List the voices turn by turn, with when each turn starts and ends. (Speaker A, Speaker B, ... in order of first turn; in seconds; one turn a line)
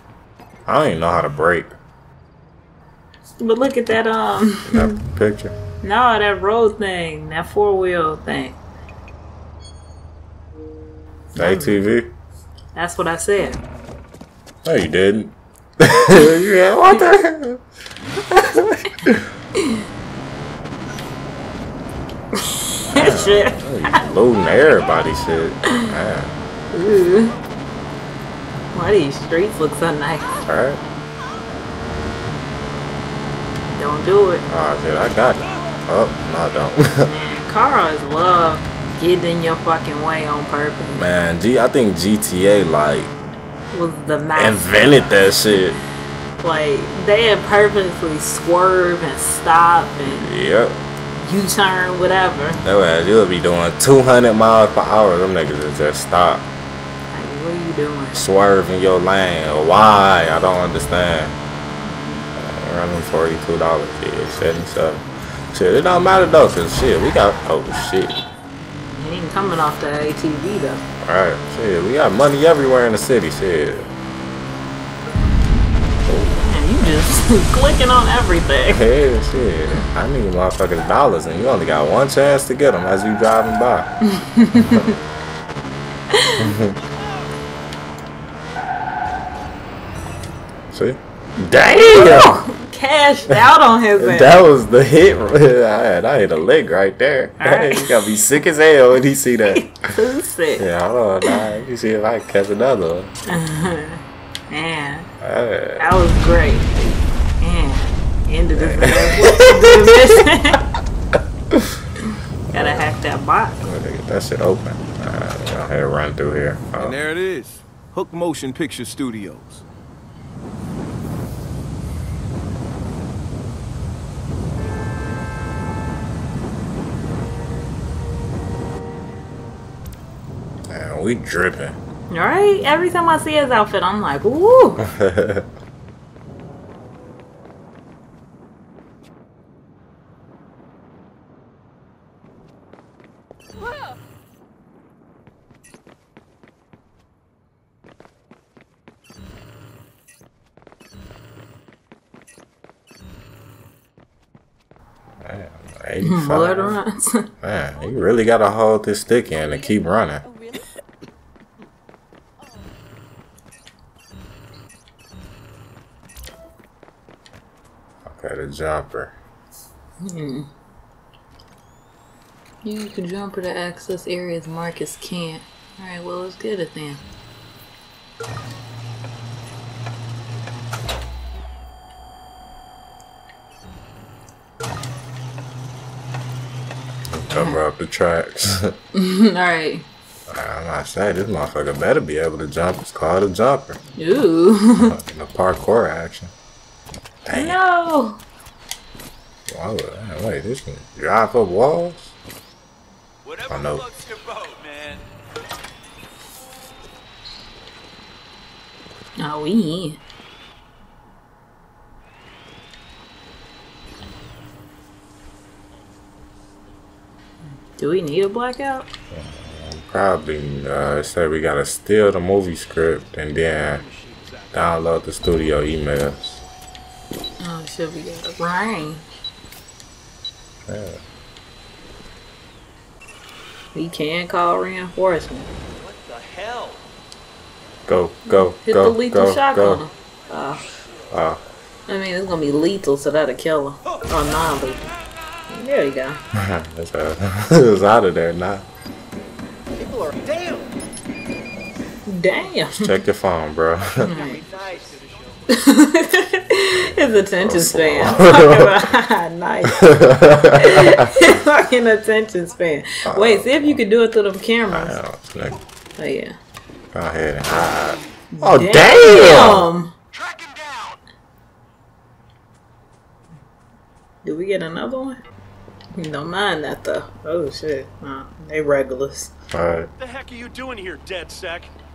Speaker A: 0.7-1.7
Speaker B: 3.4-4.9
Speaker A: 4.7-5.5
Speaker B: 5.8-8.6
Speaker B: 11.3-11.9
Speaker A: 11.3-12.1
Speaker B: 12.7-13.6
Speaker A: 14.6-17.6
Speaker A: 18.3-19.2
Speaker B: 22.5-23.6
Speaker A: 22.9-26.4
Speaker B: 26.7-27.3
Speaker B: 28.7-30.4
Speaker A: 30.5-30.8
Speaker B: 33.7-34.4
Speaker A: 34.5-36.9
Speaker B: 37.0-41.0
Speaker A: 41.0-43.1
Speaker B: 43.7-45.0
Speaker A: 44.3-45.8
Speaker B: 46.4-50.3
Speaker A: 50.0-50.8
Speaker B: 51.2-52.6
Speaker A: 52.6-56.5
Speaker B: 57.1-58.1
Speaker A: 58.1-61.4
Speaker B: 61.8-62.3
Speaker A: 62.4-68.2
Speaker B: 68.9-70.8
Speaker A: 71.0-73.9
Speaker A: 76.1-77.1
Speaker B: 76.4-78.8
Speaker A: 78.7-83.9
Speaker B: 84.2-84.9
Speaker A: 86.4-86.8
Speaker A: 90.7-92.3
Speaker B: 91.9-94.4
Speaker A: 94.0-99.8
Speaker B: 97.4-98.1
Speaker B: 99.5-100.6
Speaker A: 100.6-103.1
Speaker B: 103.3-105.1
Speaker A: 105.2-105.9
Speaker B: 105.8-110.6
Speaker A: 108.5-109.9
Speaker A: 112.5-112.9
Speaker B: 112.5-113.6
Speaker A: 113.6-117.0
Speaker C: 116.8-119.6
Speaker A: 130.7-131.8
Speaker B: 132.1-134.8
Speaker A: 134.8-135.5
Speaker A: 155.2-156.8
Speaker B: 156.0-157.3
Speaker A: 157.4-160.2
Speaker A: 168.1-169.1
Speaker B: 170.0-170.5
Speaker B: 172.6-177.0
Speaker A: 187.1-188.8
Speaker B: 187.3-187.6
Speaker B: 188.9-189.8
Speaker A: 190.3-193.8
Speaker B: 194.0-194.9
Speaker A: 194.8-196.3
Speaker A: 197.2-197.6
Speaker B: 197.3-198.2
Speaker A: 199.5-202.1
Speaker D: 203.2-205.0
Speaker A: 203.5-203.8
Speaker B: 209.2-210.0
Speaker B: 217.7-218.9
Speaker A: 219.1-223.8
Speaker D: 224.1-224.4
Speaker A: 224.5-226.4
Speaker B: 227.4-229.0
Speaker A: 230.7-231.0
Speaker B: 233.7-235.5
Speaker D: 235.8-236.8
Speaker A: 237.8-239.8
Speaker B: 238.3-240.6
Speaker A: 241.1-241.4
Speaker B: 241.9-244.9
Speaker B: 245.5-246.2
Speaker A: 246.3-248.7
Speaker D: 250.2-250.6
Speaker B: 252.1-252.7
Speaker A: 252.7-254.1
Speaker B: 254.0-254.4
Speaker D: 254.2-255.3
Speaker B: 255.5-259.9
Speaker A: 256.7-258.7
Speaker A: 259.8-261.0
Speaker B: 260.5-265.0
Speaker A: 263.1-263.8
Speaker A: 264.7-265.6
Speaker B: 266.0-266.3
Speaker A: 266.9-269.7
Speaker B: 268.3-269.9
Speaker B: 274.2-275.2
Speaker B: 275.9-279.3
Speaker A: 279.5-279.9
Speaker D: 280.0-281.7